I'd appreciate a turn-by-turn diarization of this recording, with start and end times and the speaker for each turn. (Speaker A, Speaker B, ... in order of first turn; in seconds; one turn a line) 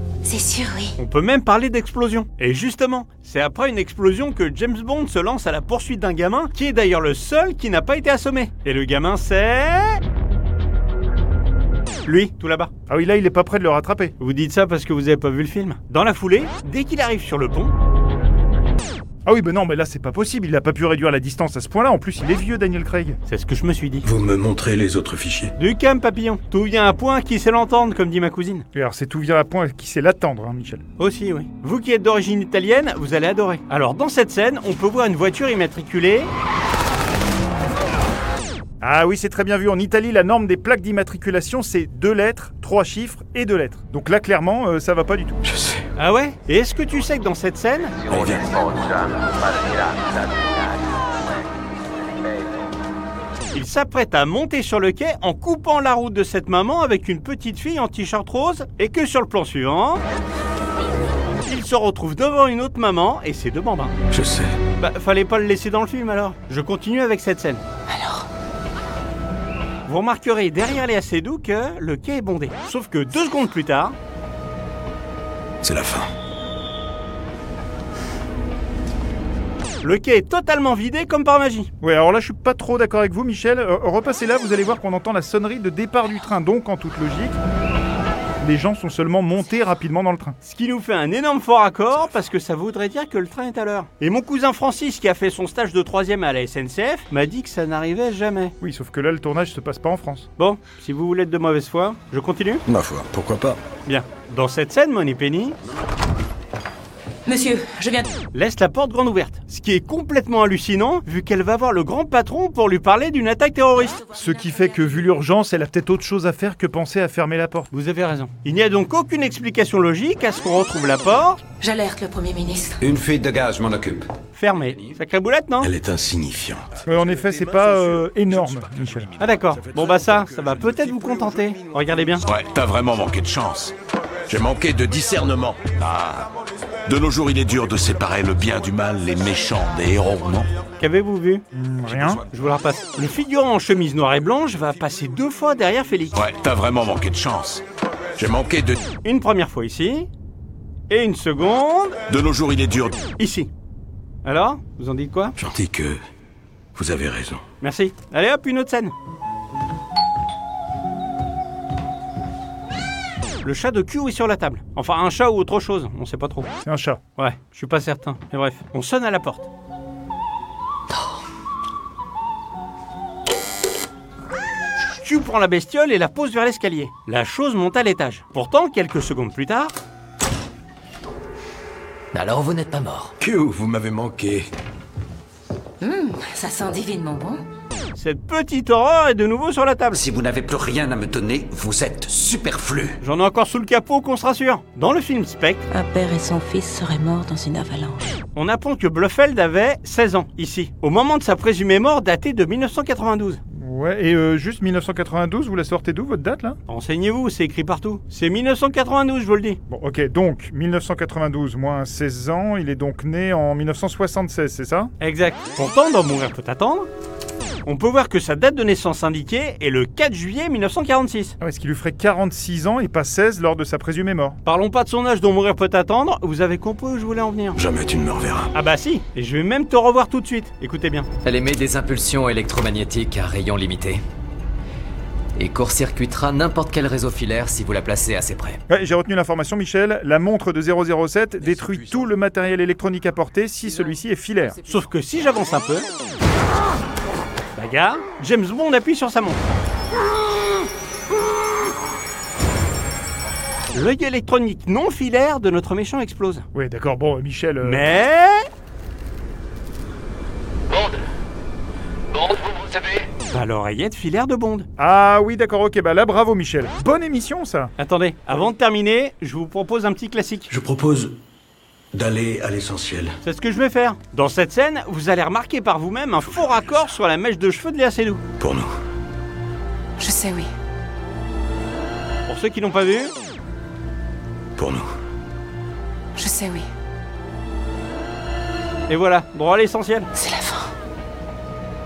Speaker A: 0.2-0.9
Speaker B: 1.0-10.0
Speaker B: 12.0-12.7
Speaker C: 12.9-14.1
Speaker B: 14.2-17.7
Speaker C: 19.2-23.2
Speaker B: 23.3-24.1
Speaker D: 24.0-25.5
Speaker B: 25.6-28.6
Speaker C: 28.7-30.8
Speaker B: 31.0-36.3
Speaker C: 38.8-45.4
Speaker D: 45.5-45.8
Speaker B: 46.0-48.0
Speaker E: 48.0-50.8
Speaker D: 48.1-48.5
Speaker B: 53.5-60.0
Speaker B: 61.5-63.9
Speaker D: 64.1-64.5
Speaker B: 64.8-67.6
Speaker A: 67.9-68.2
Speaker B: 69.8-73.9
Speaker D: 75.6-76.1
Speaker B: 79.8-81.7
Speaker C: 81.8-87.4
Speaker C: 88.4-90.4
Speaker B: 90.4-98.5
Speaker C: 98.6-100.3
Speaker B: 100.4-102.6
Speaker D: 102.7-103.6
Speaker B: 103.8-105.6
Speaker A: 107.2-108.1
Speaker B: 108.3-114.0
Speaker C: 114.1-117.7
Speaker B: 117.7-121.4
Speaker A: 121.6-122.8
Speaker E: 122.8-124.1
Speaker B: 124.3-125.7
Speaker D: 125.6-126.8
Speaker C: 126.8-129.1
Speaker B: 129.2-132.2
Speaker F: 132.3-133.7
Speaker D: 134.3-135.7
Speaker F: 135.7-136.3
Speaker F: 136.9-140.5
Speaker D: 138.7-139.3
Speaker B: 140.8-141.4
Speaker C: 141.5-142.2
Speaker B: 142.3-146.2
Speaker F: 146.1-147.6
Speaker D: 148.2-148.8
Speaker B: 149.0-150.1
Speaker B: 150.9-152.0
Speaker F: 152.1-153.1
Speaker B: 153.2-153.5
Speaker B: 154.2-155.3
Speaker D: 155.4-156.0
Speaker D: 156.8-157.4
Speaker B: 157.6-158.9
Speaker B: 163.4-166.5
Speaker C: 166.6-167.0
Speaker B: 167.2-169.5
Speaker B: 174.9-179.7
Speaker G: 182.1-183.1
Speaker D: 183.2-184.4
Speaker A: 185.8-187.4
Speaker B: 187.9-190.0
Speaker E: 189.9-193.0
Speaker B: 193.0-195.6
Speaker A: 195.7-198.2
Speaker B: 198.3-203.4
Speaker C: 203.5-206.6
Speaker B: 206.7-209.6
Speaker C: 209.7-214.9
Speaker B: 215.0-216.9
Speaker B: 217.6-221.3
Speaker C: 221.4-224.4
Speaker B: 224.4-227.6
Speaker D: 227.6-228.5
Speaker B: 228.5-231.1
Speaker G: 231.2-234.0
Speaker G: 235.3-238.6
Speaker C: 238.7-244.6
Speaker B: 244.7-245.9
Speaker B: 247.5-249.4
Speaker B: 253.7-256.4
Speaker C: 256.5-257.9
Speaker B: 257.6-258.4
Speaker B: 263.3-264.7
Speaker C: 264.8-267.7
Speaker B: 267.8-270.5
Speaker D: 270.5-271.2
Speaker D: 271.9-273.1
Speaker B: 273.2-278.2
Speaker D: 278.4-278.7
Speaker A: 280.0-280.5
Speaker B: 282.3-283.1
Speaker D: 284.6-284.9
Speaker A: 286.1-286.6
Speaker B: 288.9-290.1
Speaker A: 290.1-290.7